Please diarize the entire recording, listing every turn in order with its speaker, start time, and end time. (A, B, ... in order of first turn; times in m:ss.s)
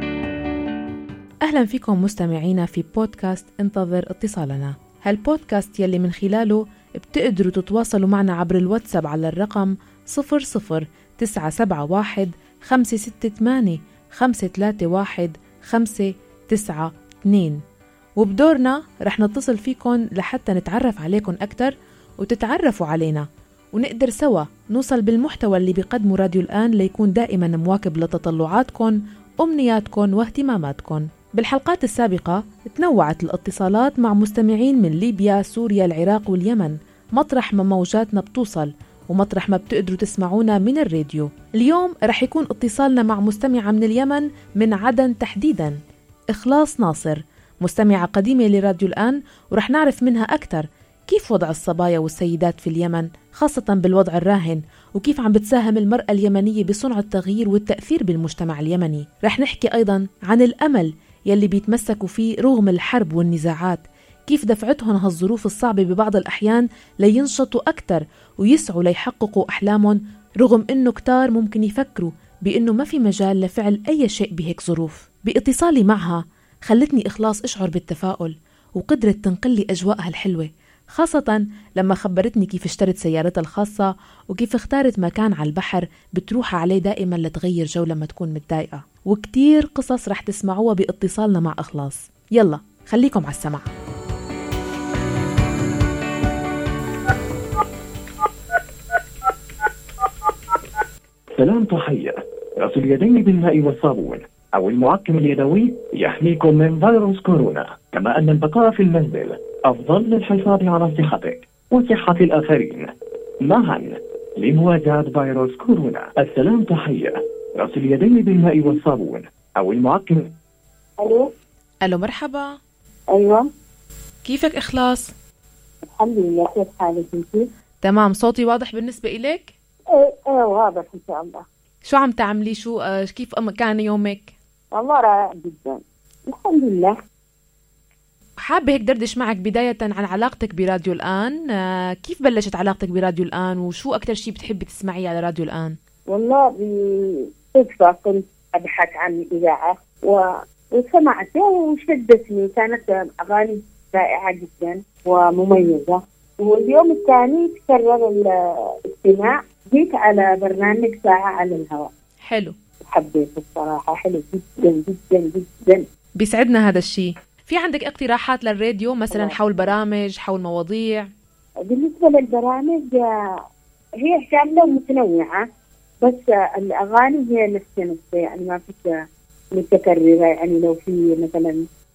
0:01.4-0:17.6 A
0:18.2-0:45.8 A
0:46.3-1:33.7 A
1:41.4-2:00.3 B
2:01.0-2:01.3 C
2:01.8-2:02.6 A
2:03.1-2:03.5 C
2:04.2-2:05.1 A
2:05.8-2:07.5 C
2:07.8-2:09.5 A
2:09.9-2:11.5 C
2:11.8-2:14.3 A
2:14.7-2:17.0 C
2:18.4-2:21.4 A
2:22.0-2:25.8 A
2:26.1-2:41.9 C
2:42.3-2:42.5 A
2:42.8-2:45.8 C
2:46.2-2:51.1 A
2:49.1-2:49.7 C
2:51.7-2:53.1 C
2:54.0-2:55.4 C
2:56.0-2:59.0 C
2:59.6-3:01.6 C